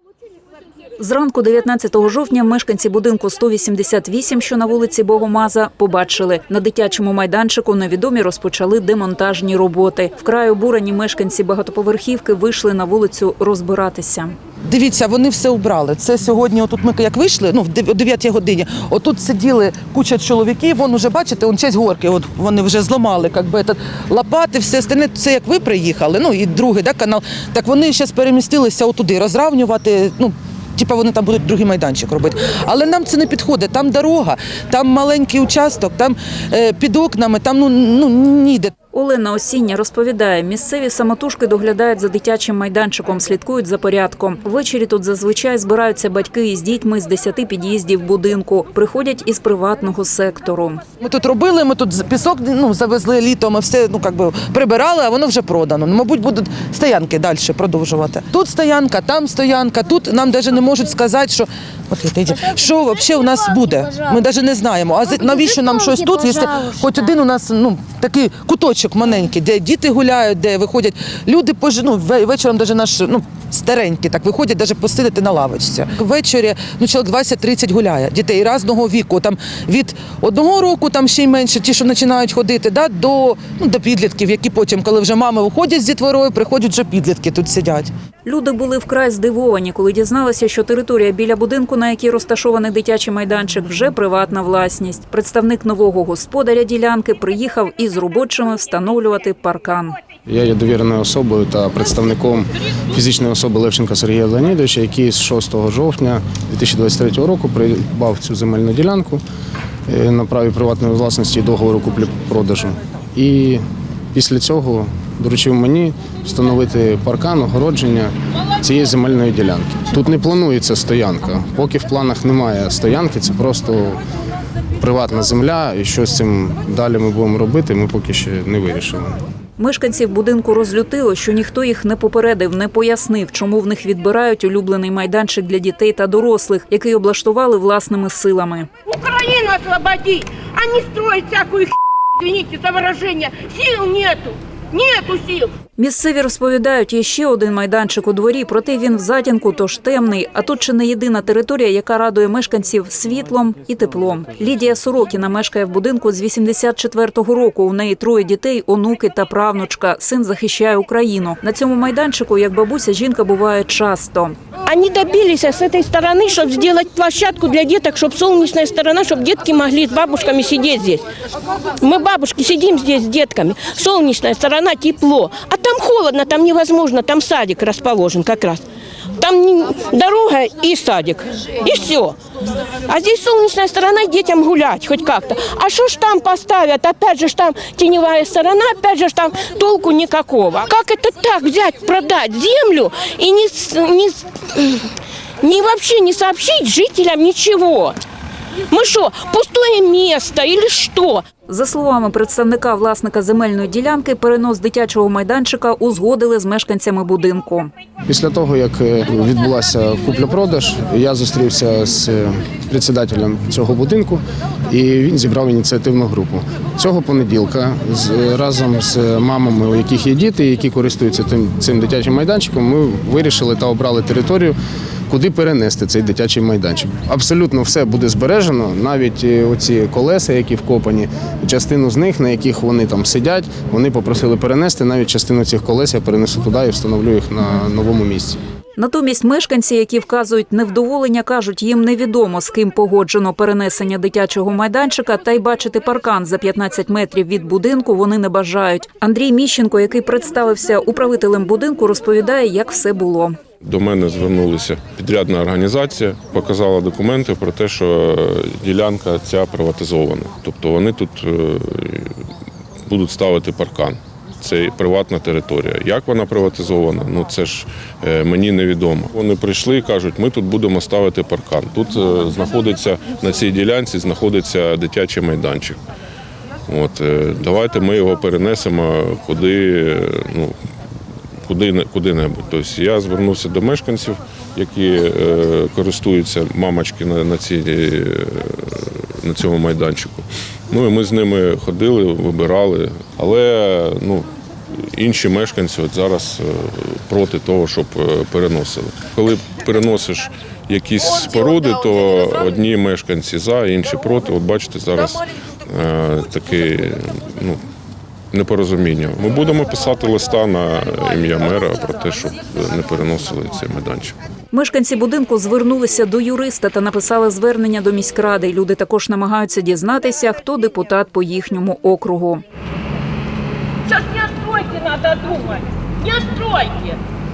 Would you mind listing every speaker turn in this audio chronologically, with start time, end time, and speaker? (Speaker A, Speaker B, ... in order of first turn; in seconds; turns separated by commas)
Speaker A: 1.0-14.3, Speaker B: 14.6-38.7, Speaker A: 38.9-50.8, Speaker B: 51.0-87.9, Speaker A: 88.2-100.0, Speaker C: 100.2-109.2, Speaker C: 109.9-124.0, Speaker C: 124.8-129.2, Speaker A: 129.6-138.7, Speaker D: 138.8-145.5, Speaker A: 145.8-164.3, Speaker D: 164.7-171.0, Speaker D: 171.8-178.6, Speaker D: 179.2-182.2, Speaker D: 182.8-194.9, Speaker D: 195.4-198.0, Speaker D: 198.7-201.2, Speaker A: 201.5-207.7, Speaker C: 208.1-224.6, Speaker C: 225.1-238.4, Speaker A: 238.8-253.4, Speaker E: 253.6-262.1, Speaker E: 262.9-275.8, Speaker E: 276.7-280.5, Speaker E: 281.4-307.6, Speaker E: 308.3-314.1, Speaker A: 314.5-322.4, Speaker D: 323.9-326.9